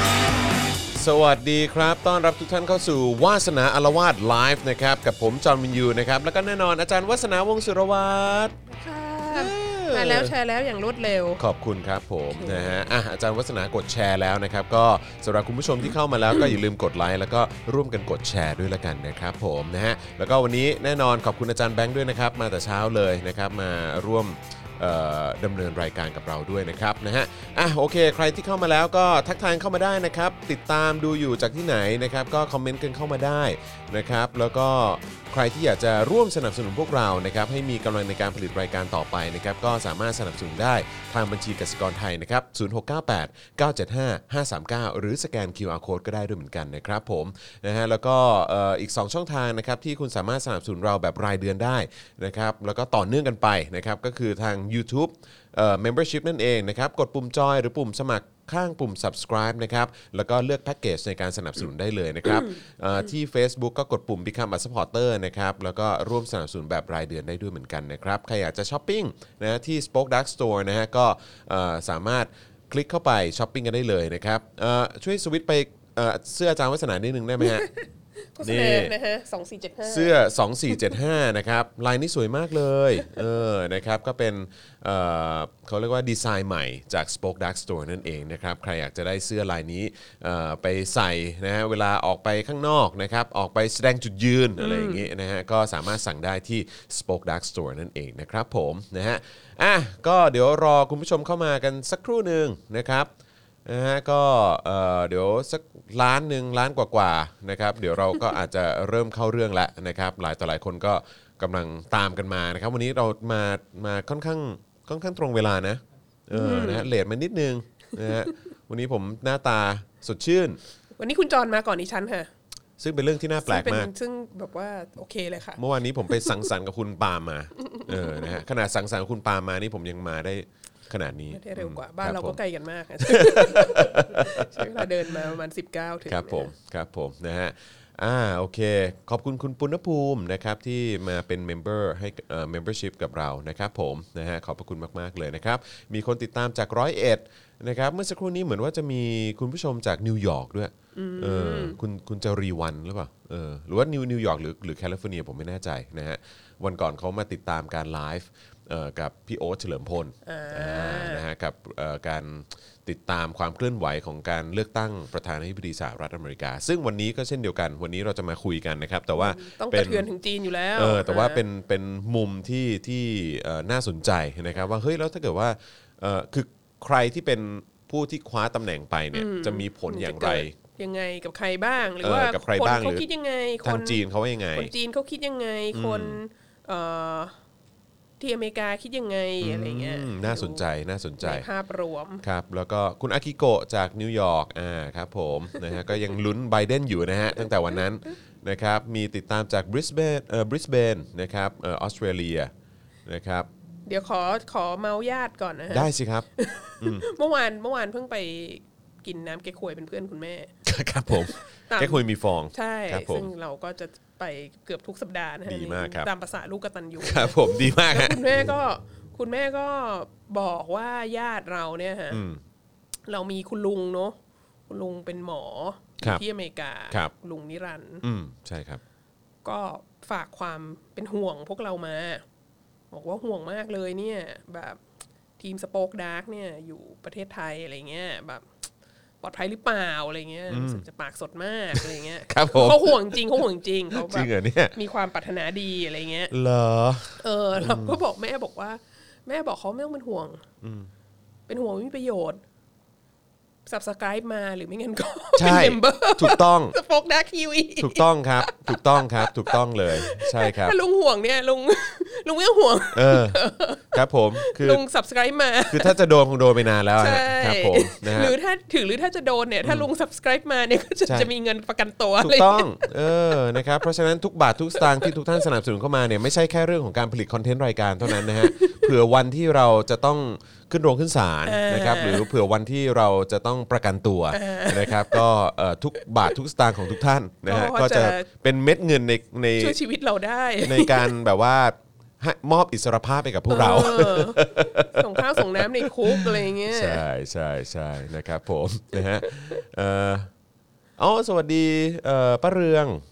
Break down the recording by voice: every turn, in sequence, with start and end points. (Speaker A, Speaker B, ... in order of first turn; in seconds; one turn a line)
Speaker A: 0.9-8.5
Speaker B: 8.7-11.4
Speaker A: 9.3-10.3
Speaker A: 11.4-77.7
Speaker B: 12.3-12.8
Speaker B: 77.4-80.2
Speaker A: 78.4-78.9
Speaker A: 79.8-103.1
Speaker B: 94.6-95.1
Speaker A: 103.6-120.6
Speaker B: 116.3-116.9
Speaker B: 121.0-122.3
Speaker A: 122.8-123.9
Speaker B: 123.4-126.4
Speaker A: 125.6-132.4
Speaker B: 127.6-128.4
Speaker B: 131.3-136.5
Speaker A: 133.0-135.1
Speaker A: 136.1-170.1
Speaker B: 150.9-151.8
Speaker B: 160.2-161.2
Speaker B: 169.1-171.4
Speaker A: 170.7-180.6
Speaker B: 179.1-184.0
Speaker A: 182.0-183.0
Speaker A: 183.6-184.7
Speaker B: 184.5-187.3
Speaker A: 185.7-186.2
Speaker B: 188.2-190.6
Speaker A: 189.4-191.5
Speaker B: 191.2-192.2
Speaker A: 192.2-202.5
Speaker A: 203.1-203.5
Speaker B: 203.9-210.5
Speaker A: 205.7-206.3
Speaker A: 206.8-207.1
Speaker A: 210.6-213.3
Speaker B: 211.1-222.2
Speaker A: 215.4-216.1
Speaker A: 217.0-218.5
Speaker A: 222.1-222.4
Speaker B: 223.1-224.1
Speaker B: 224.7-228.0
Speaker A: 228.0-228.8
Speaker B: 229.4-232.2
Speaker B: 232.9-234.8
Speaker B: 235.4-238.4
Speaker B: 239.2-246.3
Speaker A: 240.5-240.8
Speaker A: 241.7-244.8
Speaker A: 246.3-248.0
Speaker B: 247.2-250.4
Speaker A: 250.6-250.9
Speaker B: 251.5-252.4
Speaker B: 253.7-266.0
Speaker A: 255.3-256.7
Speaker A: 257.8-260.8
Speaker A: 262.9-264.8
Speaker A: 265.7-268.3
Speaker B: 267.0-273.7
Speaker A: 272.2-289.8
Speaker B: 274.8-275.1
Speaker B: 278.0-278.9
Speaker B: 281.4-282.3
Speaker B: 284.3-285.2
Speaker B: 287.4-288.3
Speaker B: 289.6-291.1
Speaker A: 290.6-300.3
Speaker B: 293.5-297.0
Speaker B: 299.2-299.6
Speaker A: 301.0-303.0